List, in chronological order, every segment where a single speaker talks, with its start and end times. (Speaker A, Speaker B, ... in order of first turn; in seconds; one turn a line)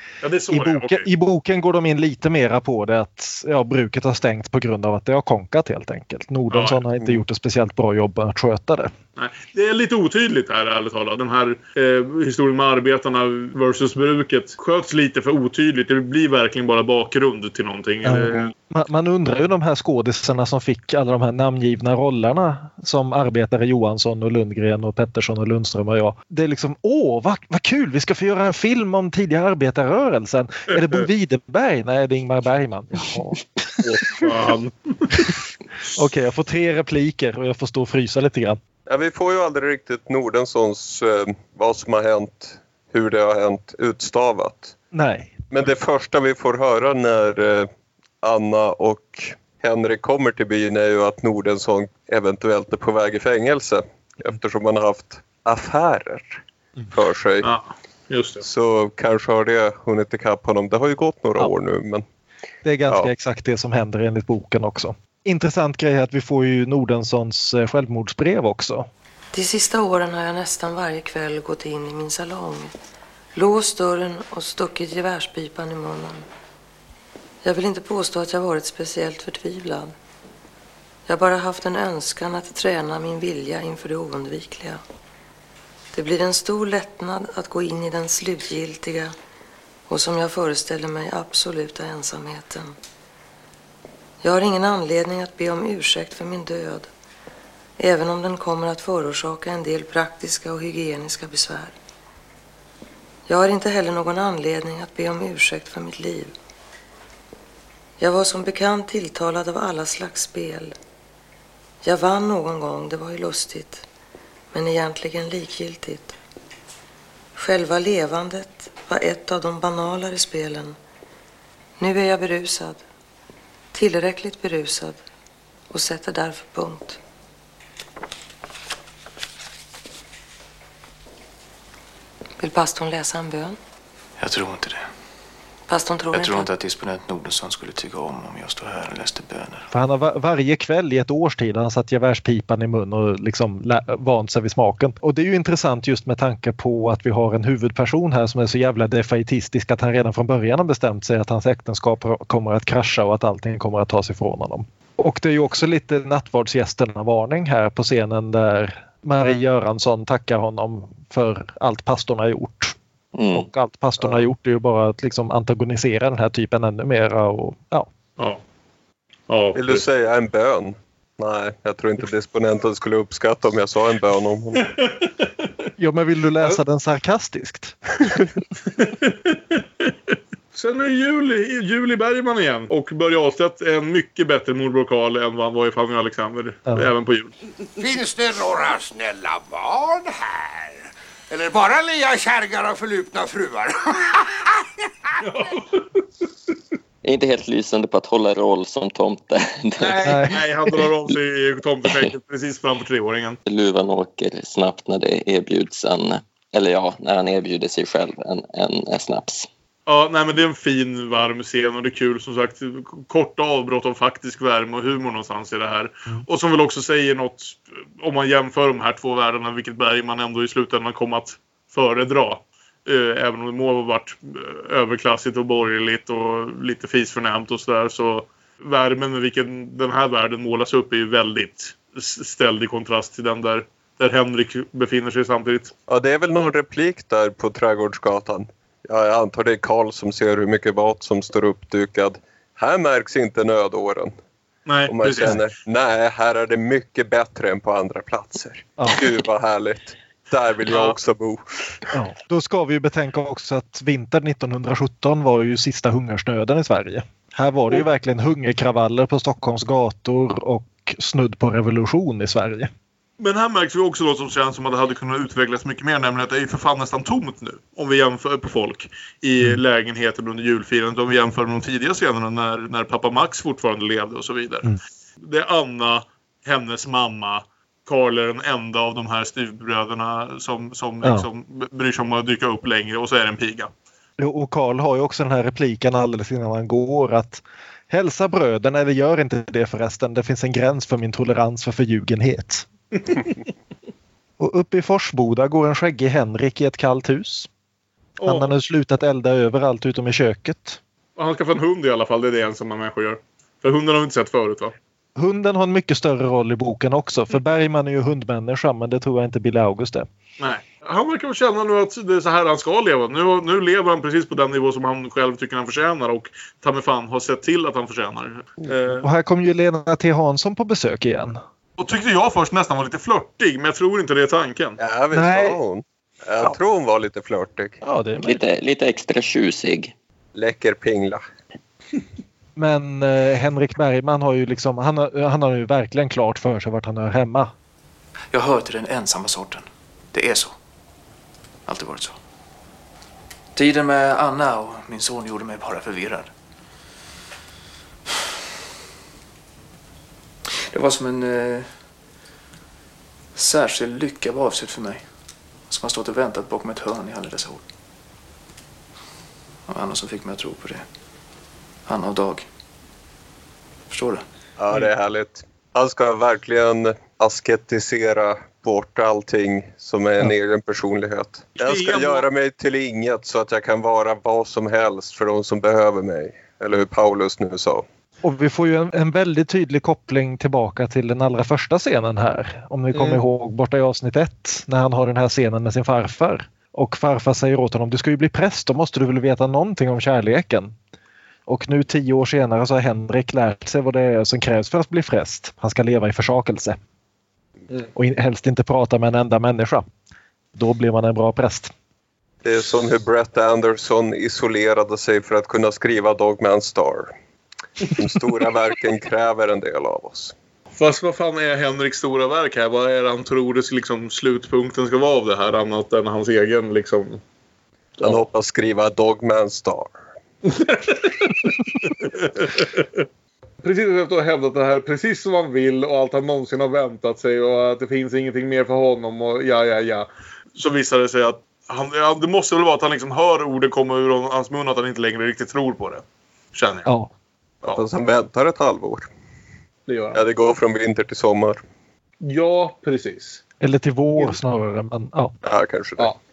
Speaker A: 0.2-1.1
Speaker B: 0.5-8.9
Speaker A: 6.5-6.8
Speaker A: 9.2-18.5
Speaker B: 18.0-34.3
Speaker A: 33.9-35.3
Speaker B: 36.0-38.6
Speaker C: 38.9-44.8
Speaker B: 44.9-45.4
Speaker C: 45.5-47.7
Speaker C: 48.2-57.5
Speaker A: 57.4-58.4
Speaker C: 58.4-62.0
Speaker B: 62.6-68.9
Speaker D: 69.3-72.7
Speaker D: 73.3-76.2
Speaker D: 77.4-79.9
Speaker D: 81.1-84.8
Speaker D: 86.0-89.1
Speaker D: 89.9-92.7
Speaker D: 94.2-96.9
Speaker D: 97.8-101.7
Speaker D: 103.3-106.3
Speaker D: 108.0-110.7
Speaker D: 111.8-113.8
Speaker D: 114.5-116.1
Speaker D: 117.4-120.8
Speaker D: 121.8-122.8
Speaker D: 123.8-125.0
Speaker D: 125.7-127.0
Speaker D: 132.4-133.6
Speaker E: 134.2-134.8
Speaker D: 135.7-136.4
Speaker E: 136.1-139.7
Speaker B: 139.7-162.8
Speaker F: 163.2-163.5
Speaker B: 163.3-167.9
Speaker A: 169.3-169.9
Speaker C: 169.5-174.8
Speaker B: 175.8-177.8
Speaker A: 178.8-179.9
Speaker A: 180.5-187.3
Speaker G: 187.8-194.7
Speaker A: 195.2-196.0
Speaker F: 197.0-200.2
Speaker A: 199.8-203.4
Speaker B: 200.0-200.4
Speaker F: 203.5-209.5
Speaker A: 209.9-235.7
Speaker C: 235.9-244.1
Speaker A: 244.7-245.4
Speaker C: 244.9-251.8
Speaker A: 250.7-251.0
Speaker B: 251.9-262.7
Speaker A: 263.2-274.7
Speaker A: 275.2-283.7
Speaker B: 284.2-292.7
Speaker B: 294.4-297.5
Speaker A: 298.2-298.5
Speaker B: 298.2-300.8
Speaker A: 301.2-304.8
Speaker B: 305.2-310.1
Speaker A: 310.4-319.0
Speaker B: 319.0-321.4
Speaker A: 321.8-324.8
Speaker C: 324.8-327.8
Speaker B: 325.1-325.6
Speaker B: 327.8-328.4
Speaker F: 328.2-329.9
Speaker C: 330.4-331.2
Speaker B: 332.6-337.5
Speaker E: 338.3-340.6
Speaker E: 341.7-342.2
Speaker E: 343.6-346.3
Speaker E: 350.7-351.7
Speaker E: 353.4-355.1
Speaker E: 355.7-357.6
Speaker E: 359.7-360.9
Speaker E: 361.9-362.5
Speaker E: 363.9-364.2
Speaker C: 364.6-377.8
Speaker A: 371.6-372.3
Speaker B: 378.2-390.7
Speaker A: 382.9-383.2
Speaker B: 391.5-396.8
Speaker B: 397.9-399.9
Speaker B: 400.5-401.7
Speaker C: 402.4-407.1
Speaker C: 407.9-410.3
Speaker A: 410.8-417.2
Speaker C: 418.0-420.0
Speaker A: 420.5-421.4
Speaker A: 422.0-423.1
Speaker A: 423.6-436.9
Speaker B: 436.9-437.1
Speaker C: 437.7-439.1
Speaker A: 439.9-440.2
Speaker C: 440.1-441.6
Speaker A: 442.2-443.4
Speaker B: 443.6-445.4
Speaker C: 445.4-446.1